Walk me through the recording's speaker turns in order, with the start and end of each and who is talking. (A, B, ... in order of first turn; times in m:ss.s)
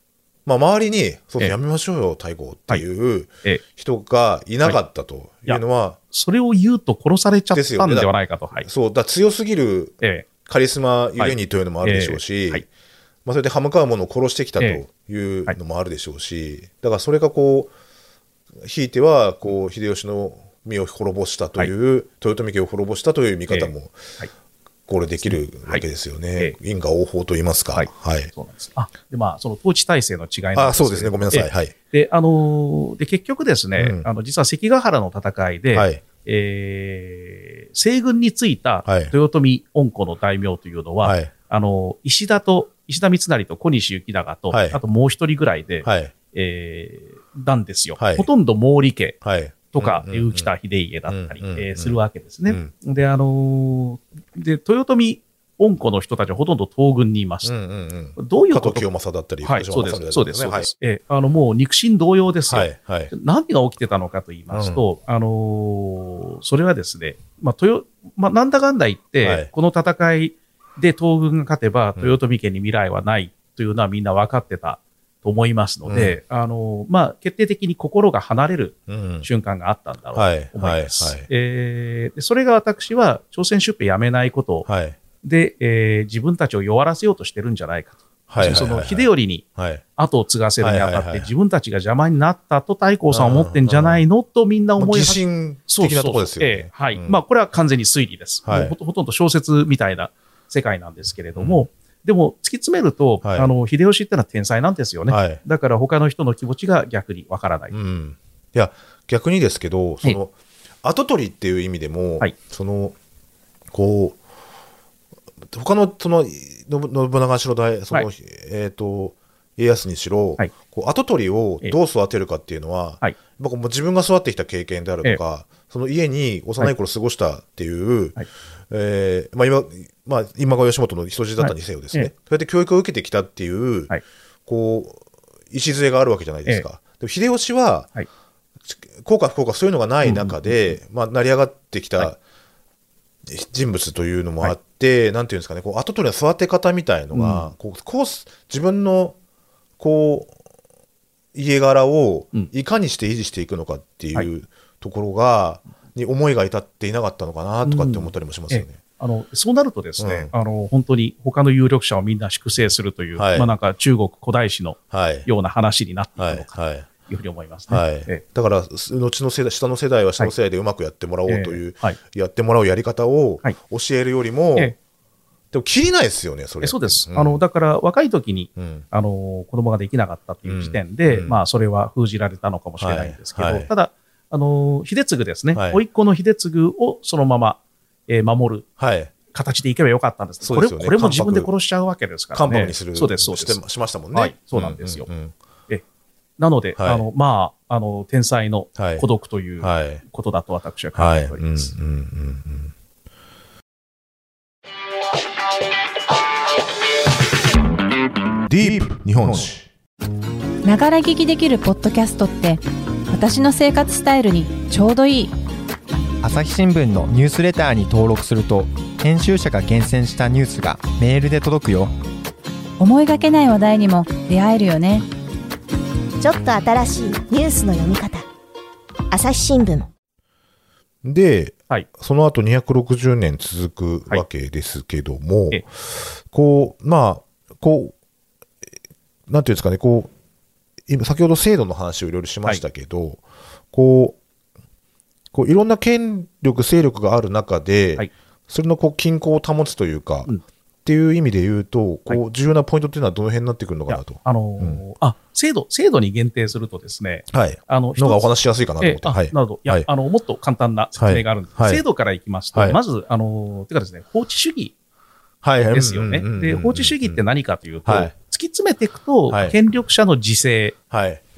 0:00.4-0:06.0 A
0:06.1-0:08.7 B
0:07.5-0:08.1 A
0:08.6-0:12.6 A
0:10.0-0:10.2 B
0:11.2-0:12.6 B
0:13.2-0:17.7 A
0:18.6-0:24.1 A
0:23.5-0:24.3 B
0:24.9-0:28.3 A
0:27.7-0:49.2 B
0:30.5-0:31.7 A
0:33.8-0:34.0 A
0:35.7-0:36.0 A
0:38.8-0:39.1 A
0:41.0-0:41.3 A
0:44.5-0:44.8 A
0:45.8-0:46.1 A
0:48.0-0:48.3 A
0:49.2-0:50.5 A
0:49.7-0:57.5 B
0:51.1-0:52.0 A
0:57.4-1:00.7 A
0:58.2-0:58.8 B
0:59.4-1:24.7 B
1:02.5-1:03.1 A
1:04.5-1:04.8 A
1:09.2-1:09.5 A
1:15.9-1:16.2 A
1:18.9-1:19.3 A
1:20.1-1:21.3 A
1:24.7-1:25.0 A
1:25.2-1:29.4 B
1:28.3-1:29.8 A
1:30.0-1:47.7 B
1:30.6-1:31.3 A
1:33.1-1:34.0 A
1:34.8-1:37.2 A
1:38.5-1:38.7 A
1:41.4-1:41.6 A
1:43.2-1:43.5 A
1:45.1-1:45.4 A
1:47.7-1:53.0 A
1:53.7-1:54.2 A
1:55.5-2:13.9 A
2:11.4-2:12.1 B
2:14.4-2:17.9 A
2:18.7-2:22.2 A
2:20.0-2:20.7 B
2:23.2-2:29.2 A
2:27.1-2:27.5 B
2:29.8-2:30.3 A
2:31.3-2:38.8 A
2:37.6-2:48.2 B
2:40.0-2:40.3 A
2:43.2-2:43.5 A
2:44.9-2:45.3 A
2:46.2-2:46.9 A
2:47.7-2:54.7 A
2:51.3-2:52.0 B
2:55.5-2:57.4 A
2:56.6-3:08.6 B
2:58.6-2:58.8 A
3:00.4-3:01.4 A
3:02.8-3:03.7 A
3:05.5-3:05.8 A
3:08.8-3:09.1 A
3:09.3-3:13.6 B
3:10.4-3:11.5 A
3:12.3-3:15.3 A
3:14.1-3:15.1 B
3:16.4-3:21.7 B
3:16.8-3:17.0 A
3:18.8-3:19.0 A
3:19.6-3:20.0 A
3:20.9-3:22.7 A
3:28.5-3:29.7 A
3:30.6-3:35.3 C
3:36.2-3:41.9 D
3:42.8-3:45.0 C
3:46.2-3:48.2 E
3:49.1-3:49.9 E
3:51.0-3:57.9 A
3:59.3-4:00.1 A
4:00.9-4:04.2 A
4:05.3-4:10.3 A
4:10.8-4:14.8 A
4:13.9-4:18.3 B
4:17.3-4:19.9 A
4:18.8-4:24.7 B
4:21.0-4:21.8 A
4:25.4-4:27.2 A
4:25.7-4:30.8 B
4:27.8-4:28.1 A
4:29.3-4:29.6 A
4:30.9-4:31.2 A